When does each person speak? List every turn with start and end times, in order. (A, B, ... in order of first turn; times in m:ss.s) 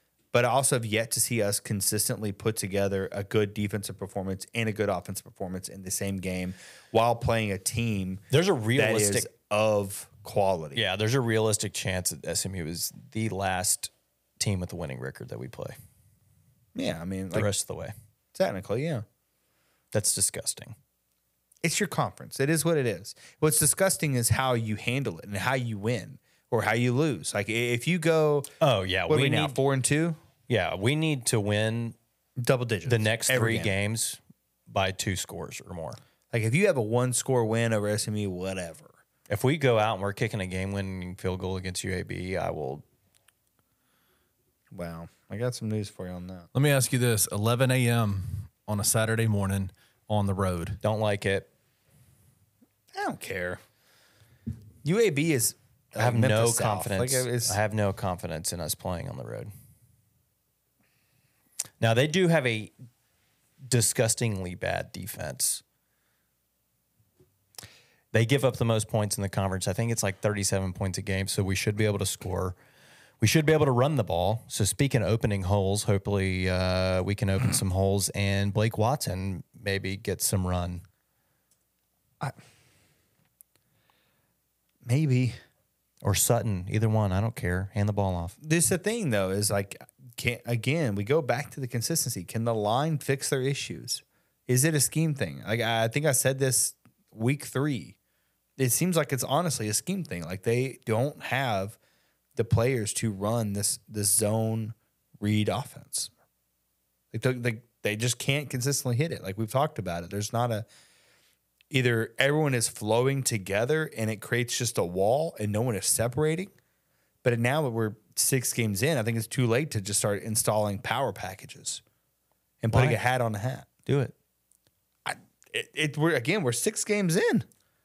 0:00.3-0:10.8 A
0:08.3-0:09.3 B
0:10.7-0:15.8 B
0:16.8-0:17.5 A
0:17.3-0:17.9 B
0:18.3-0:19.0 A
0:19.9-0:20.8 B
0:21.6-0:28.5 A
0:28.6-0:29.6 B
0:29.1-0:30.2 A
0:30.5-0:32.0 B
0:32.4-0:33.7 A
0:32.9-0:36.0 B
0:36.3-0:38.9 A
0:39.3-0:42.8 B
0:44.7-0:46.5 A
0:46.5-0:50.8 C
0:50.8-0:51.5 B
0:52.9-0:53.6 A
0:54.8-0:57.6 A
0:56.0-0:59.5 B
1:01.8-1:02.7 B
1:03.6-1:05.6 B
1:08.1-1:12.6 B
1:13.2-1:20.8 B
1:24.8-1:25.4 A
1:26.0-1:28.4 B
1:28.4-1:38.0 A
1:38.6-1:41.8 A
1:42.4-1:46.1 A
1:47.1-1:50.7 A
1:51.7-1:56.5 A
1:57.2-2:01.8 A
2:02.6-2:03.7 A
2:02.7-2:03.0 B
2:03.9-2:04.1 B
2:05.0-2:07.5 A